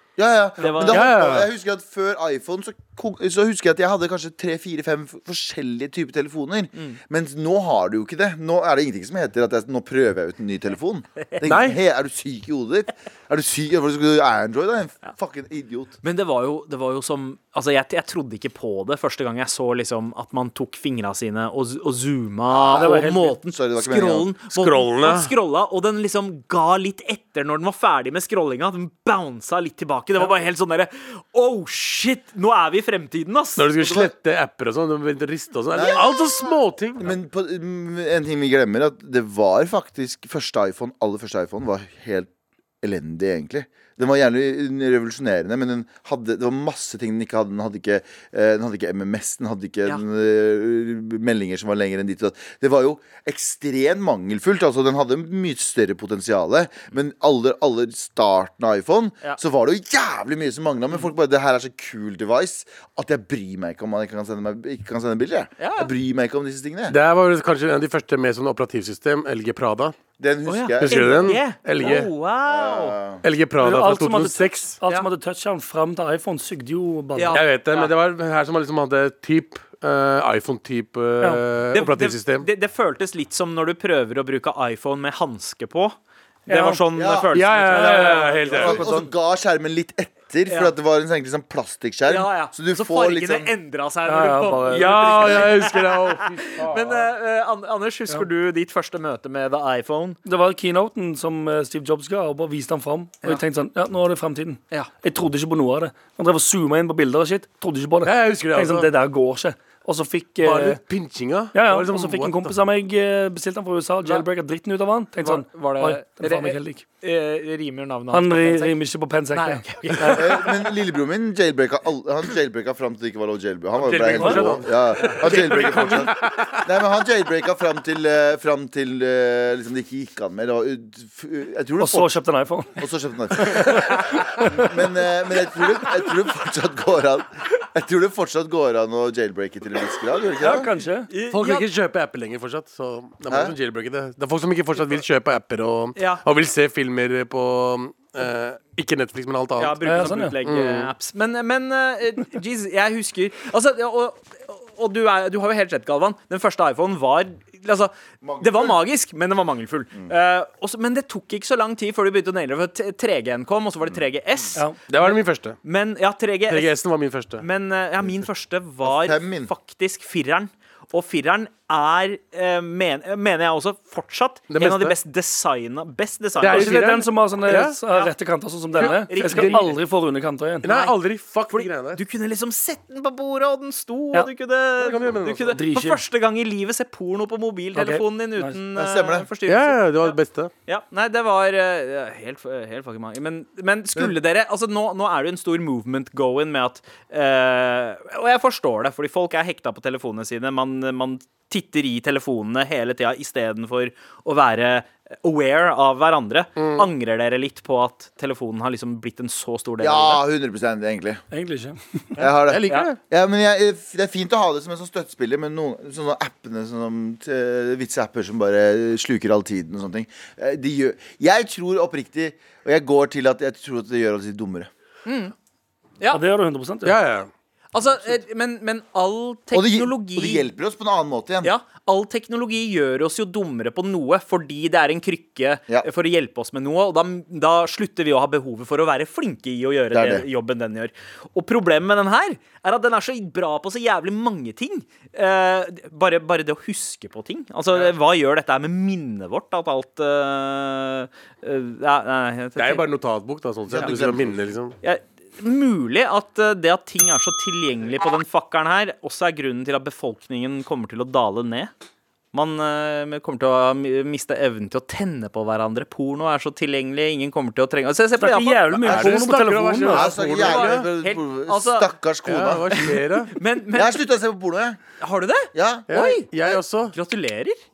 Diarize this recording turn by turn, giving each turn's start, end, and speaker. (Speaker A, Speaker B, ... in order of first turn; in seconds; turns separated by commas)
Speaker A: 0.2-15.9, Speaker B: 0.6-1.1, Speaker C: 0.9-1.5, Speaker C: 11.4-11.8, Speaker B: 16.0-33.8, Speaker A: 22.5-24.3, Speaker D: 22.7-23.4, Speaker C: 24.5-25.3, Speaker C: 33.6-37.1, Speaker A: 33.8-34.1, Speaker A: 35.7-42.3, Speaker A: 42.8-67.0, Speaker B: 65.6-65.9, Speaker C: 66.9-69.9, Speaker A: 70.2-71.4, Speaker B: 70.5-73.0, Speaker C: 70.8-72.1, Speaker A: 72.4-73.2, Speaker C: 73.2-74.8, Speaker D: 73.6-77.4, Speaker B: 77.2-77.9, Speaker C: 77.3-82.5, Speaker B: 81.7-86.0, Speaker D: 86.5-86.8, Speaker B: 86.5-88.8, Speaker A: 86.9-87.3, Speaker C: 87.3-88.8, Speaker D: 87.7-89.1, Speaker A: 88.5-93.5, Speaker B: 90.5-90.7, Speaker B: 92.1-100.2, Speaker D: 94.0-94.9, Speaker C: 94.7-97.1, Speaker D: 100.2-110.8, Speaker C: 108.0-108.9, Speaker C: 110.4-112.5, Speaker D: 111.5-116.8, Speaker B: 115.2-118.8, Speaker D: 118.1-120.3, Speaker B: 119.3-120.5, Speaker A: 120.1-132.2, Speaker C: 123.8-126.6, Speaker D: 124.2-124.5, Speaker B: 125.2-126.1, Speaker D: 131.8-132.8, Speaker A: 132.8-140.7, Speaker D: 133.3-133.9, Speaker D: 140.4-141.1, Speaker B: 141.1-141.7, Speaker C: 141.3-149.8, Speaker A: 143.3-143.5, Speaker B: 145.9-146.2, Speaker B: 149.6-166.8, Speaker D: 149.8-150.3, Speaker C: 150.4-150.9, Speaker A: 158.2-158.8, Speaker C: 164.9-165.6, Speaker C: 166.5-167.4, Speaker B: 167.4-176.9, Speaker A: 168.8-169.5, Speaker C: 174.5-174.9, Speaker C: 176.4-177.8, Speaker D: 176.4-180.7, Speaker B: 178.8-179.8, Speaker C: 178.8-179.6, Speaker C: 180.6-182.0, Speaker B: 180.6-180.9, Speaker B: 181.5-210.2, Speaker C: 184.8-185.6, Speaker D: 185.5-186.0, Speaker D: 187.7-188.6, Speaker A: 188.7-189.3, Speaker C: 189.5-190.5, Speaker C: 206.6-206.9, Speaker A: 209.8-211.2, Speaker D: 211.3-212.2, Speaker A: 212.2-224.7, Speaker C: 212.4-213.0, Speaker B: 225.1-225.3, Speaker D: 226.1-227.0, Speaker C: 226.8-227.3, Speaker B: 227.7-230.5, Speaker A: 229.5-231.5, Speaker B: 231.4-252.9, Speaker A: 239.9-240.3, Speaker C: 252.6-254.8, Speaker A: 253.7-254.4, Speaker B: 254.8-261.7, Speaker B: 262.3-269.0, Speaker D: 268.2-270.1, Speaker C: 268.8-270.9, Speaker A: 269.9-272.9, Speaker B: 270.3-271.9, Speaker C: 272.2-273.3, Speaker B: 272.7-274.0, Speaker A: 273.7-274.8, Speaker B: 275.0-277.6, Speaker A: 275.5-275.9, Speaker C: 275.9-276.9